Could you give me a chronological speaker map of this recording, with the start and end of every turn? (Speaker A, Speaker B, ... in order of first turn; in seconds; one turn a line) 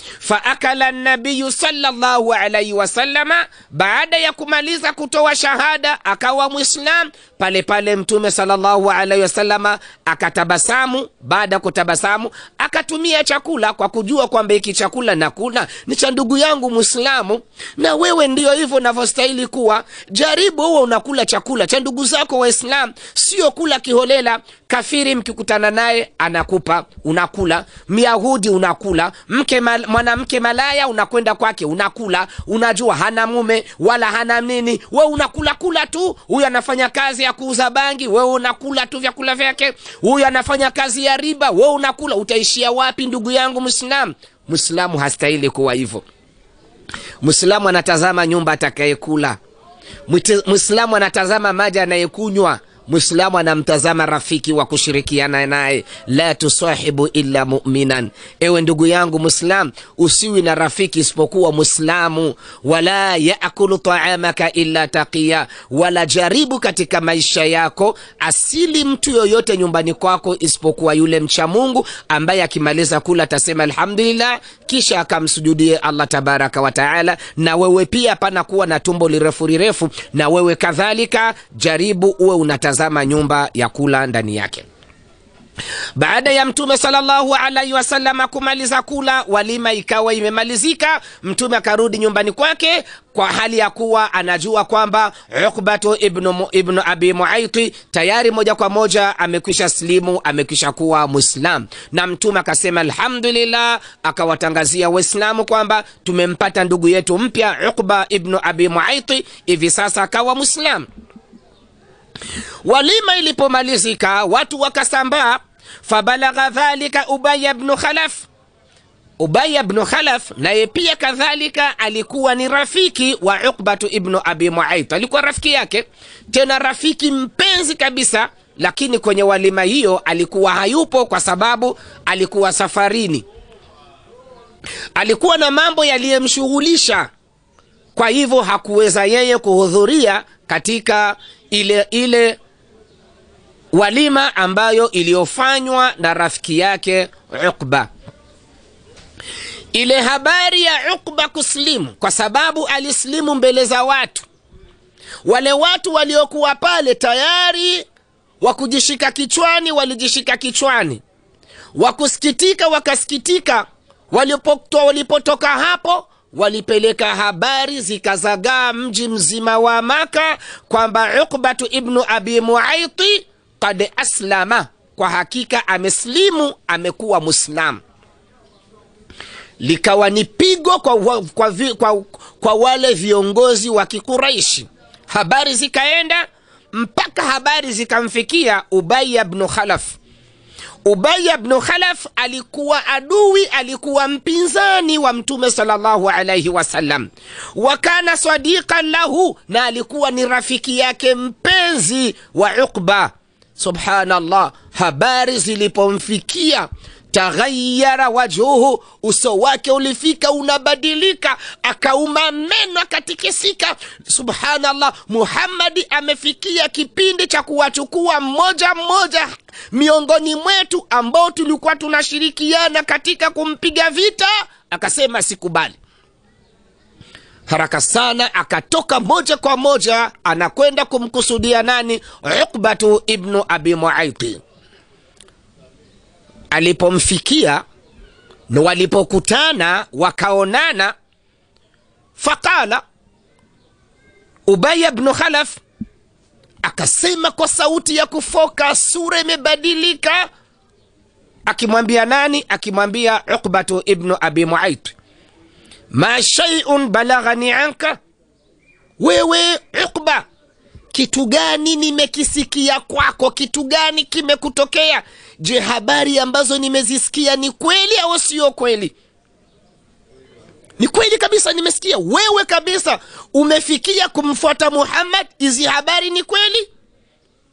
Speaker A: 0.2-46.0
Speaker A: 47.2-49.4
Speaker A: 50.1-84.7
Speaker A: 86.0-110.8
Speaker A: 112.6-118.3
Speaker A: 119.2-133.2
Speaker A: 134.9-137.1
Speaker A: 137.9-142.4
Speaker A: 143.7-147.9
Speaker A: 149.7-154.3
Speaker A: 155.2-157.8
Speaker A: 158.4-161.0
Speaker A: 161.7-177.8
Speaker A: 179.6-190.0
Speaker A: 190.8-225.8
Speaker A: 227.5-234.4
Speaker A: 236.5-237.6
Speaker A: 238.5-240.9
Speaker A: 242.2-242.8
Speaker A: 244.5-245.6
Speaker A: 246.6-250.3
Speaker A: 251.5-254.9
Speaker A: 255.9-258.0
Speaker A: 259.0-260.2
Speaker A: 260.9-268.9
Speaker A: 270.8-276.7